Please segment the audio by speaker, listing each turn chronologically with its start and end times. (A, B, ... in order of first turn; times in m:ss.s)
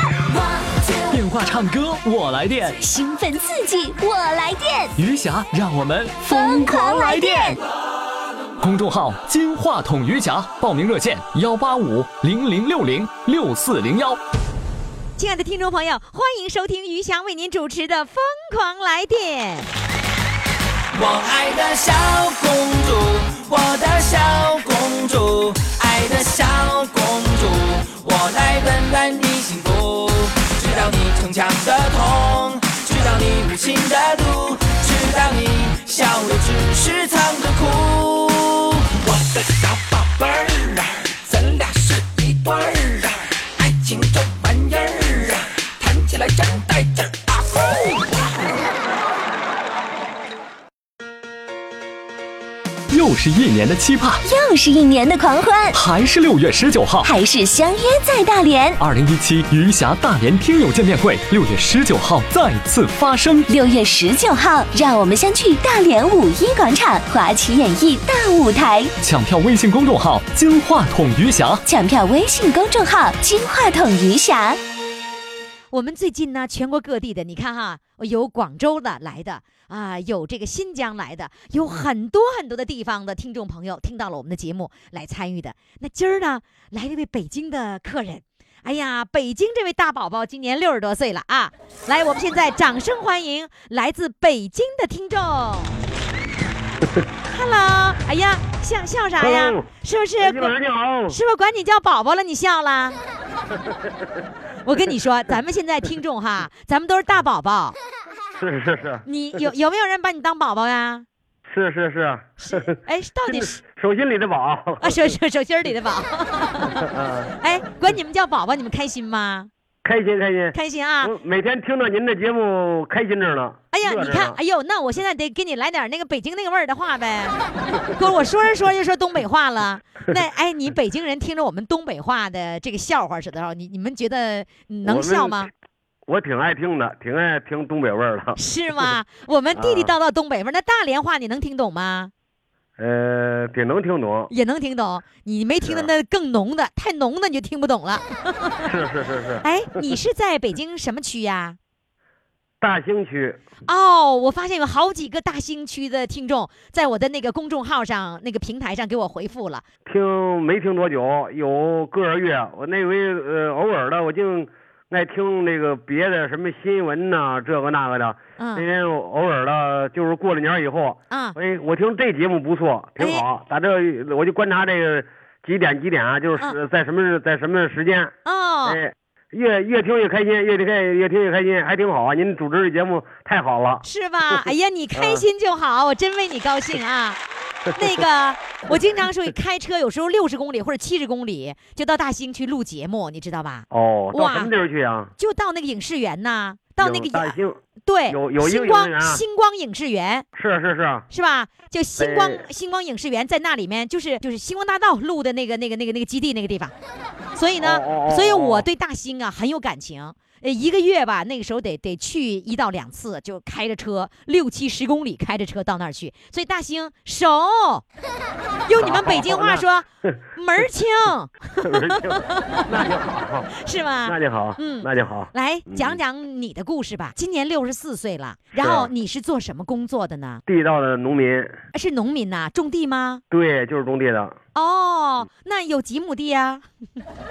0:01.1-0:02.8 A
0:02.8-0:05.0 B
0:05.0-0:07.6 A
0:06.3-0:07.6 B
0:08.6-0:14.2 A
0:15.2-0:19.7 C
0:20.9-0:48.2 D
0:52.9-0:54.2 A
0:54.2-0:55.8 B
0:55.7-0:57.1 A
0:57.0-0:58.8 B
0:58.8-1:03.5 A
1:03.5-1:08.9 B
1:09.0-1:11.6 A
1:11.7-1:14.6 B
1:15.7-1:35.8 C
1:37.3-1:40.5 C
1:39.2-1:39.7 E
1:40.2-1:41.2 E
1:41.1-1:43.0 C
1:43.5-1:44.2 E
1:44.6-1:47.8 C
1:48.4-1:49.0 E
1:49.1-1:51.1 C
1:51.5-1:55.2 E
1:52.4-1:53.6 C
1:54.8-1:56.9 C
1:56.6-1:57.3 E
1:57.4-1:59.5 C
1:59.8-2:04.4 E
2:00.6-2:01.1 C
2:03.7-2:07.4 C
2:07.9-2:15.5 C
2:14.8-2:15.5 E
2:16.1-2:18.9 E
2:18.4-2:22.1 C
2:19.6-2:19.9 E
2:22.8-2:24.3 E
2:24.3-2:28.6 C
2:25.6-2:25.9 E
2:28.6-2:30.0 E
2:29.4-2:31.6 C
2:32.6-2:33.4 E
2:33.7-2:39.6 C
2:39.9-2:58.1 E
2:48.4-2:48.7 C
2:51.1-2:51.4 C
2:53.0-2:53.3 C
2:58.2-2:58.8 C
2:58.6-3:04.4 E
3:03.8-3:07.2 C
3:04.9-3:05.2 E
3:07.7-3:14.5 C
3:13.7-3:15.1 E
3:15.2-3:20.3 C
3:16.8-3:19.2 E
3:20.3-3:21.1 E
3:21.1-3:26.7 C
3:22.0-3:22.4 E
3:27.4-3:37.8 C
3:27.6-3:28.7 E
3:38.7-3:42.9 C
3:38.8-3:40.7 E
3:41.6-3:43.5 E
3:43.5-3:50.4 C
3:44.0-3:46.0 E
3:48.6-3:48.9 E
3:50.5-3:51.6 E
3:51.7-3:53.2 C
3:53.3-3:54.4 E
3:54.6-3:56.6 C